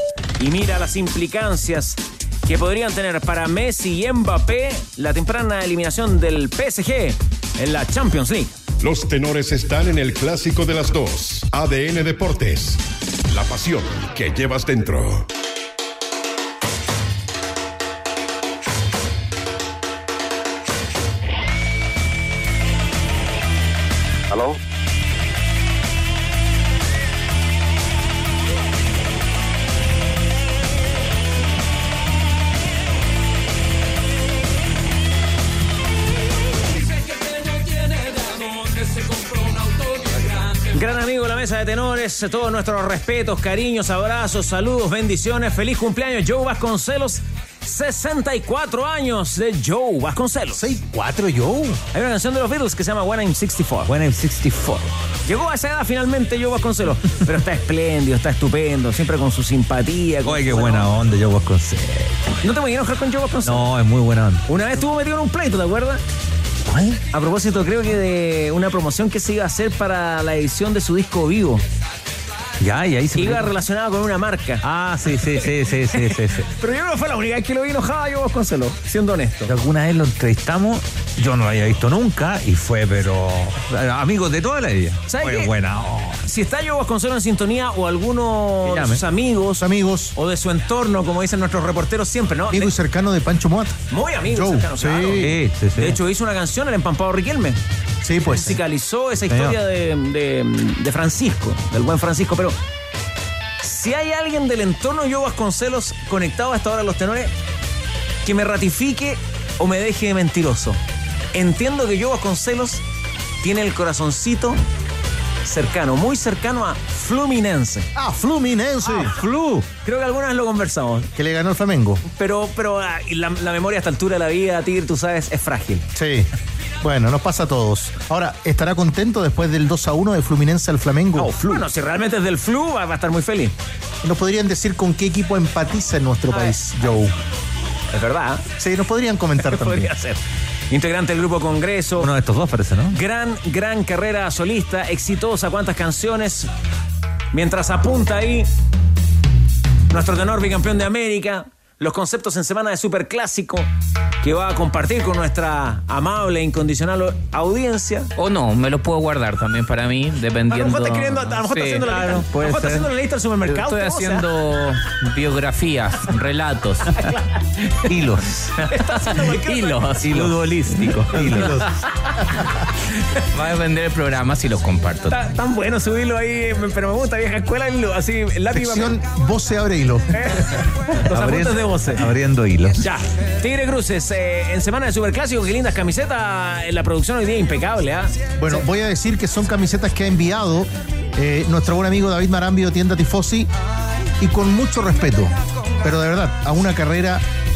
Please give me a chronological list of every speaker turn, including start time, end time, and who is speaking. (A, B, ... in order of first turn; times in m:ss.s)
0:00.4-0:08.5 A
0:08.8-0:15.3 B
0:37.5-0:50.6 A
0:50.5-0:51.8 C
0:51.9-0:53.9 A
0:53.8-0:54.9 D
0:55.2-1:00.9 A
1:00.2-1:02.3 D
1:02.4-1:03.7 A
1:03.4-1:04.4 D
1:04.5-1:06.0 A
1:06.7-1:07.0 D
1:07.1-1:11.6 A
1:12.6-1:13.5 D
1:13.2-1:14.6 A
1:14.6-1:16.5 D
1:15.3-1:19.5 A
1:19.5-1:26.2 D
1:25.1-1:25.5 A
1:26.2-1:29.6 A
1:28.7-1:29.0 D
1:29.6-1:30.2 C
1:30.2-1:32.7 A
1:32.5-1:33.8 C
1:33.9-1:37.6 A
1:34.3-1:35.4 C
1:35.2-1:36.0 D
1:38.0-1:38.5 C
1:38.2-1:42.6 A
1:39.3-1:39.6 D
1:43.6-1:47.3 A
1:48.2-1:50.8 A
1:51.3-1:52.8 A
1:53.4-1:54.6 A
1:55.4-1:57.9 A
1:57.9-1:59.2 C
1:58.8-2:01.1 A
2:01.2-2:02.0 C
2:02.1-2:05.8 A
2:05.9-2:06.3 C
2:06.8-2:11.4 C
2:11.1-2:13.5 A
2:14.0-2:17.1 C
2:17.9-2:18.5 A
2:18.6-2:19.9 C
2:19.4-2:20.2 A
2:20.7-2:22.1 A
2:22.0-2:23.0 D
2:22.9-2:26.5 A
2:27.3-2:28.5 A
2:29.9-2:33.7 A
2:34.2-2:38.1 A
2:38.2-2:41.9 E
2:40.5-2:44.3 A
2:41.9-2:42.9 D
2:43.5-2:47.1 E
2:47.0-2:47.8 A
2:47.8-2:48.5 D
2:48.6-2:52.2 E
2:48.7-2:49.9 A
2:50.0-2:51.6 D
2:51.3-2:51.7 C
2:53.3-2:55.2 E
2:55.0-2:59.0 A
2:58.5-3:00.5 C
3:00.2-3:02.1 A
3:01.0-3:02.8 D
3:02.8-3:08.6 A
3:08.4-3:13.5 C
3:14.2-3:17.2 C